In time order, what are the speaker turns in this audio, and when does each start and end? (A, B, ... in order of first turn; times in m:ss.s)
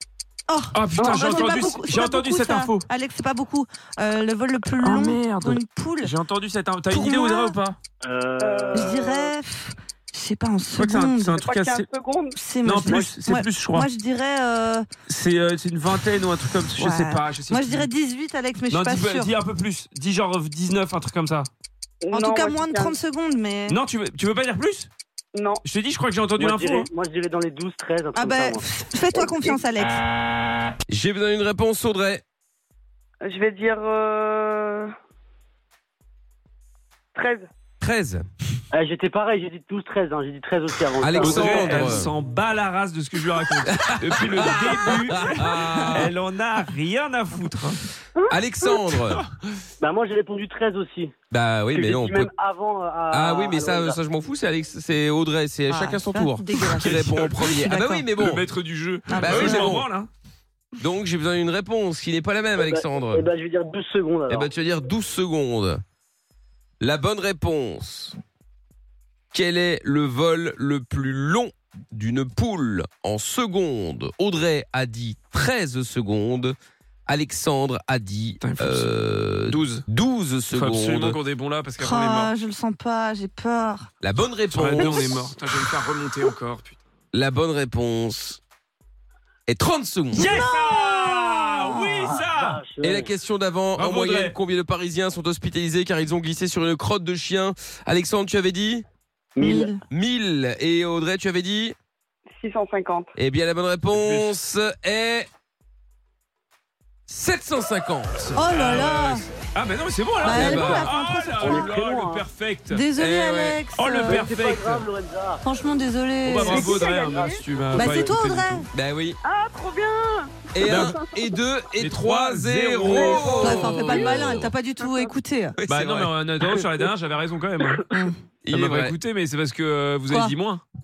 0:00.5-0:06.1 A
0:00.7-0:02.9 B
0:01.0-0:01.6 C
0:04.8-0:07.8 B
0:06.9-0:07.6 A
0:08.0-0:08.9 D
0:08.4-0:09.3 C
0:08.7-0:11.4 A
0:10.8-0:11.9 B
0:11.4-0:13.1 C
0:12.4-0:14.9 A
0:12.6-0:13.9 B
0:15.1-0:17.9 B
0:16.8-0:19.3 A
0:18.7-0:21.5 B
0:22.0-0:22.9 C
0:22.1-0:23.8 A
0:23.7-0:24.9 B
0:25.4-0:25.6 C
0:25.6-0:26.9 B
0:26.4-0:28.6 D
0:28.2-0:30.0 A
0:29.2-0:29.5 C
0:30.9-0:32.2 E
0:33.2-0:34.9 C
0:37.2-0:37.5 C
0:37.8-0:38.2 E
0:38.7-0:41.8 D
0:41.0-0:42.1 E
0:41.2-0:47.8 B
0:43.7-0:46.1 E
0:48.3-0:49.2 E
0:49.8-0:51.1 D
0:51.3-0:52.3 E
0:51.7-0:54.0 D
0:53.1-0:58.4 E
0:55.7-0:58.1 A
0:56.8-0:57.6 B
0:58.2-1:00.1 B
0:59.1-0:59.8 A
0:59.2-0:59.8 E
1:00.8-1:03.3 E
1:02.6-1:04.5 D
1:04.3-1:05.8 E
1:06.8-1:08.2 E
1:09.3-1:16.6 E
1:17.1-1:21.2 E
1:18.4-1:18.9 B
1:19.5-1:19.8 B
1:20.5-1:22.3 B
1:21.8-1:23.9 A
1:24.0-1:25.3 E
1:24.5-1:26.8 B
1:24.8-1:25.2 A
1:27.1-1:28.4 E
1:29.5-1:30.3 E
1:30.1-1:32.6 B
1:30.2-1:32.0 A
1:32.0-1:33.1 D
1:32.8-1:38.8 E
1:33.8-1:34.4 B
1:39.4-1:39.7 D
1:39.4-1:39.8 A
1:39.9-1:41.8 E
1:42.4-1:43.1 C
1:43.2-1:45.3 E
1:43.9-1:44.4 B
1:47.1-1:48.5 E
1:48.4-1:49.3 A
1:48.5-1:52.8 B
1:50.2-1:51.8 A
1:50.3-1:50.9 E
1:51.4-1:52.3 D
1:52.7-1:54.3 A
1:53.0-1:53.6 E
1:53.8-1:54.9 B
1:54.1-1:55.5 D
1:55.4-1:56.7 A
1:56.2-1:58.7 B
1:56.5-1:57.4 C
1:56.5-1:58.1 D
1:57.7-1:58.7 A
1:58.7-1:59.2 E
1:59.2-2:01.2 C
2:00.5-2:04.5 E
2:00.7-2:01.0 B
2:01.8-2:03.8 B
2:02.8-2:04.2 C
2:03.3-2:05.6 A
2:04.8-2:05.1 C
2:05.6-2:06.1 E
2:05.7-2:07.9 B
2:07.9-2:08.2 A
2:08.4-2:09.0 E
2:08.5-2:10.6 B
2:10.1-2:10.4 A